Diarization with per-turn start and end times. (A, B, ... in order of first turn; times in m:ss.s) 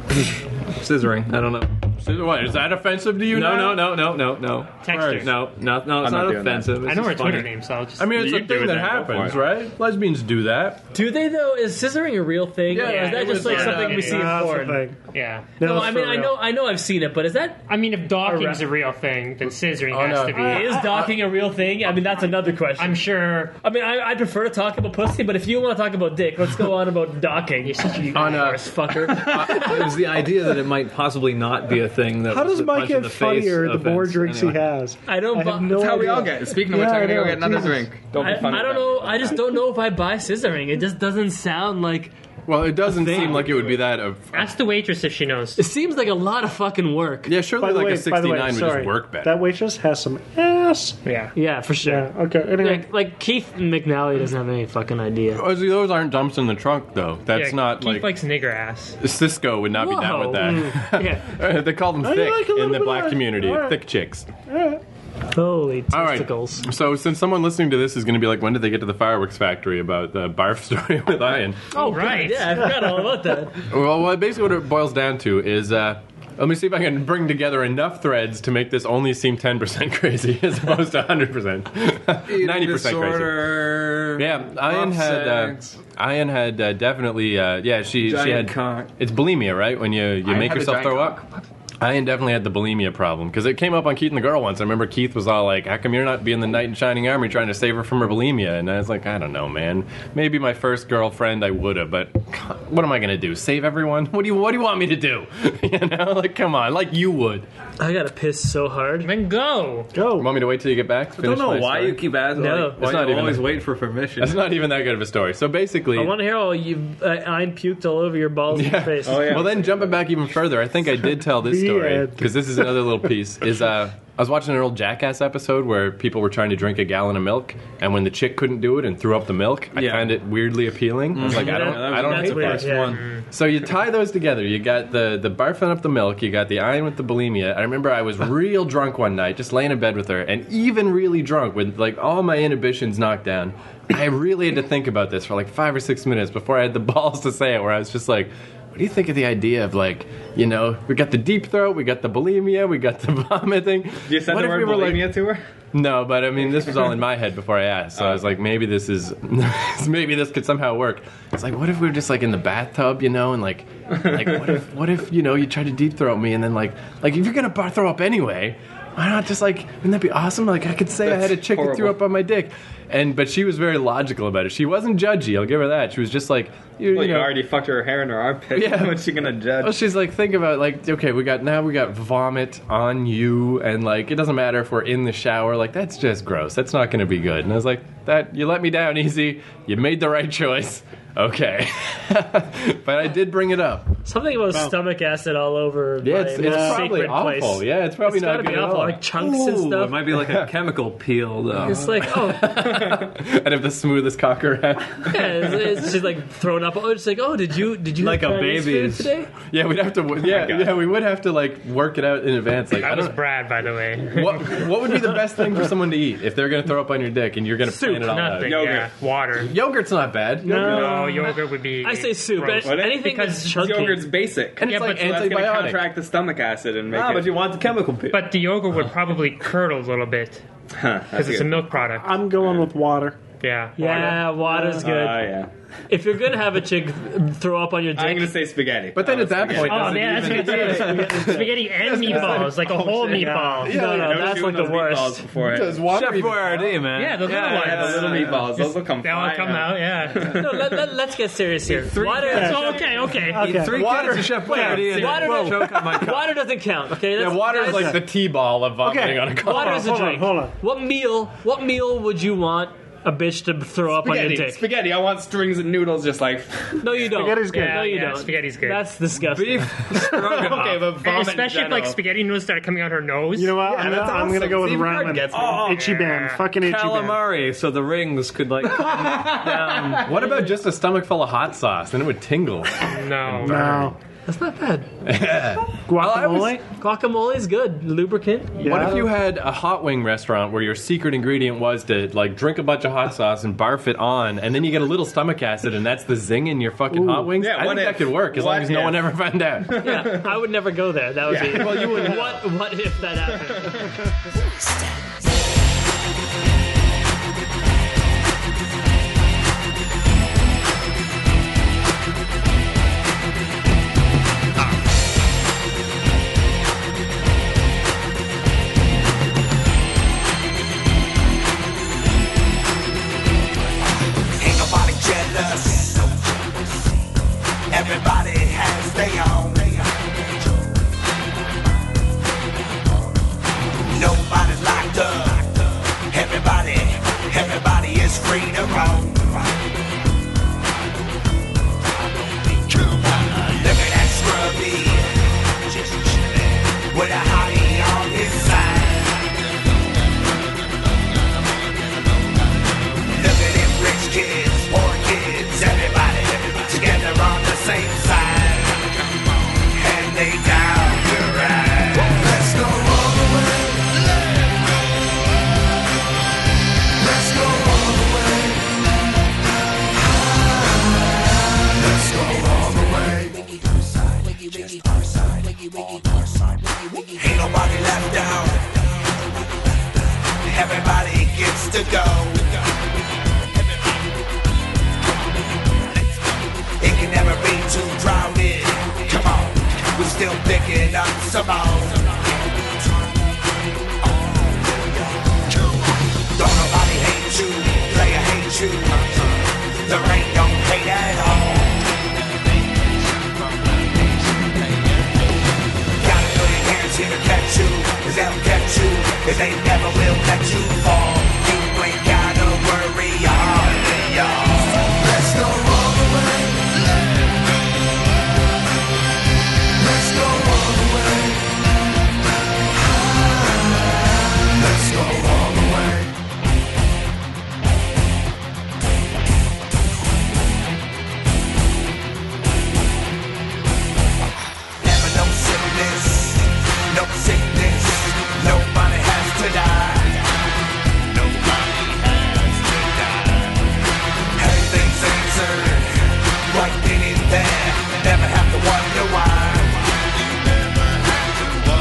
0:00.8-0:01.9 A
0:02.0-0:04.0 B
0:03.2-0:07.5 A
0:04.8-0:05.3 C
0:04.9-0:05.2 B
0:05.9-0:06.7 D
0:06.8-0:09.2 C
0:08.0-0:10.8 B
0:09.0-0:09.4 D
0:10.9-0:14.8 E
0:12.7-0:14.1 A
0:12.7-0:14.4 C
0:13.5-0:15.0 F
0:15.1-0:15.5 C
0:15.6-0:16.4 F
0:15.6-0:17.6 E
0:17.7-0:20.8 C
0:18.2-0:18.6 F
0:19.9-0:21.1 B
0:20.3-0:23.0 E
0:22.8-0:23.5 C
0:23.6-0:29.9 E
0:27.6-0:28.6 C
0:28.1-0:29.9 B
0:29.3-0:34.6 A
0:32.3-0:37.9 F
0:35.1-0:36.0 E
0:35.7-0:39.4 D
0:38.2-0:42.1 E
0:42.5-0:44.5 B
0:42.8-0:43.6 E
0:44.3-0:45.6 C
0:45.6-0:47.3 E
0:47.2-0:49.3 B
0:47.6-0:51.0 F
0:51.0-0:51.3 C
0:51.3-0:55.4 E
0:51.8-0:52.9 F
0:55.3-0:58.1 B
0:57.3-0:59.0 C
0:59.0-1:04.3 B
0:59.7-1:01.3 E
1:00.4-1:00.8 F
1:02.0-1:03.8 F
1:04.5-1:04.8 F
1:05.3-1:06.7 E
1:05.9-1:11.6 B
1:11.7-1:13.6 E
1:11.7-1:12.5 C
1:13.7-1:31.2 B
1:22.2-1:25.8 A
1:28.0-1:28.9 A
1:30.2-1:31.4 D
1:31.8-1:47.5 B
1:47.8-1:49.1 E
1:49.0-1:49.9 C
1:49.9-1:50.4 F
1:50.1-1:53.6 B
1:51.2-1:54.4 A
1:52.4-1:52.8 E
1:54.2-1:56.2 B
1:55.9-1:59.5 E
1:58.5-2:35.1 B
1:59.0-2:00.1 A
2:01.2-2:03.1 F
2:09.7-2:10.2 A
2:11.1-2:13.2 A
2:11.2-2:13.0 E
2:12.8-2:13.2 C
2:34.1-2:35.4 D
2:35.7-2:57.4 B
2:38.0-2:38.2 D
2:44.0-2:44.6 D
2:51.0-2:52.0 D
2:56.9-2:59.8 D
2:58.5-3:13.9 B
3:14.0-3:20.0 E
3:16.0-3:19.1 B
3:16.4-3:16.8 F
3:19.1-3:22.1 A
3:20.0-3:20.5 B
3:21.6-3:22.9 E
3:21.9-3:25.9 B
3:25.0-3:29.3 E
3:28.0-3:29.1 A
3:29.3-3:33.2 B
3:30.1-3:30.9 D
3:32.7-3:34.7 C
3:34.1-3:38.7 B
3:37.6-3:38.5 E
3:38.1-3:39.5 C
3:38.4-3:38.9 D
3:39.4-3:40.8 B
3:40.4-3:41.3 F
3:40.4-3:44.1 E
3:40.5-3:43.8 C
3:40.6-3:41.0 D
3:42.6-3:47.5 D
3:44.6-3:45.9 B
3:44.6-3:45.1 C
3:46.9-3:48.4 A
3:48.1-3:50.4 C
3:50.7-3:51.7 D
3:51.1-3:52.1 C
3:51.9-3:53.2 F
3:53.4-3:54.2 C
3:53.8-3:55.3 E
3:54.4-3:54.9 F
3:54.8-3:55.5 D
3:55.9-3:58.3 E
3:57.9-4:00.3 D
3:58.9-4:02.9 B
3:59.5-4:03.8 C
4:00.2-4:01.1 E
4:00.2-4:01.1 A
4:02.1-4:02.4 F
4:03.0-4:03.7 F
4:03.6-4:05.3 E
4:03.7-4:05.9 D
4:05.4-4:06.8 B
4:05.7-4:08.9 A
4:07.0-4:08.2 E
4:07.2-4:08.0 C
4:07.5-4:10.9 D
4:09.0-4:10.3 C
4:10.3-4:13.1 E
4:11.7-4:12.8 A
4:12.2-4:13.7 C
4:12.2-4:15.6 F
4:13.5-4:16.4 A
4:13.6-4:15.4 B
4:14.3-4:18.0 E
4:17.1-4:19.9 B
4:17.6-4:18.0 F
4:18.8-4:20.5 F
4:19.4-4:24.6 E
4:23.9-4:27.1 D
4:26.8-4:30.8 E
4:26.9-4:28.0 F
4:27.5-4:28.8 C
4:29.2-4:31.0 A
4:30.1-4:32.0 D
4:31.0-4:33.7 C
4:33.4-4:37.2 F
4:33.6-4:35.8 D
4:34.9-4:36.0 A
4:35.6-4:36.4 C
4:36.5-4:40.2 A
4:38.7-4:40.2 D
4:40.0-4:44.0 B
4:42.8-4:43.8 C
4:43.4-4:44.0 F
4:44.3-4:44.9 E
4:45.0-4:45.8 B
4:45.7-4:46.6 F
4:46.0-4:48.7 E
4:48.6-4:49.1 F
4:48.6-5:00.1 B
4:56.9-4:57.4 F
4:57.4-5:00.3 D
4:59.8-5:03.9 E
5:01.2-5:02.2 D
5:01.6-5:02.1 A
5:24.4-5:26.4 G
5:27.7-5:30.0 G
5:33.9-5:39.5 G
5:42.7-5:45.2 G
5:46.8-5:49.2 G
5:53.0-5:58.9 G
5:59.7-6:02.9 G
6:07.4-6:07.7 G
6:12.5-6:13.3 G
6:14.9-6:15.5 G
6:17.1-6:18.8 G
6:20.4-6:22.6 G
6:26.8-6:32.4 G
6:34.5-6:34.8 G
6:36.3-6:41.8 G
6:46.0-6:55.7 G
7:14.8-7:20.3 G
7:21.1-7:23.5 G
7:24.3-7:29.9 G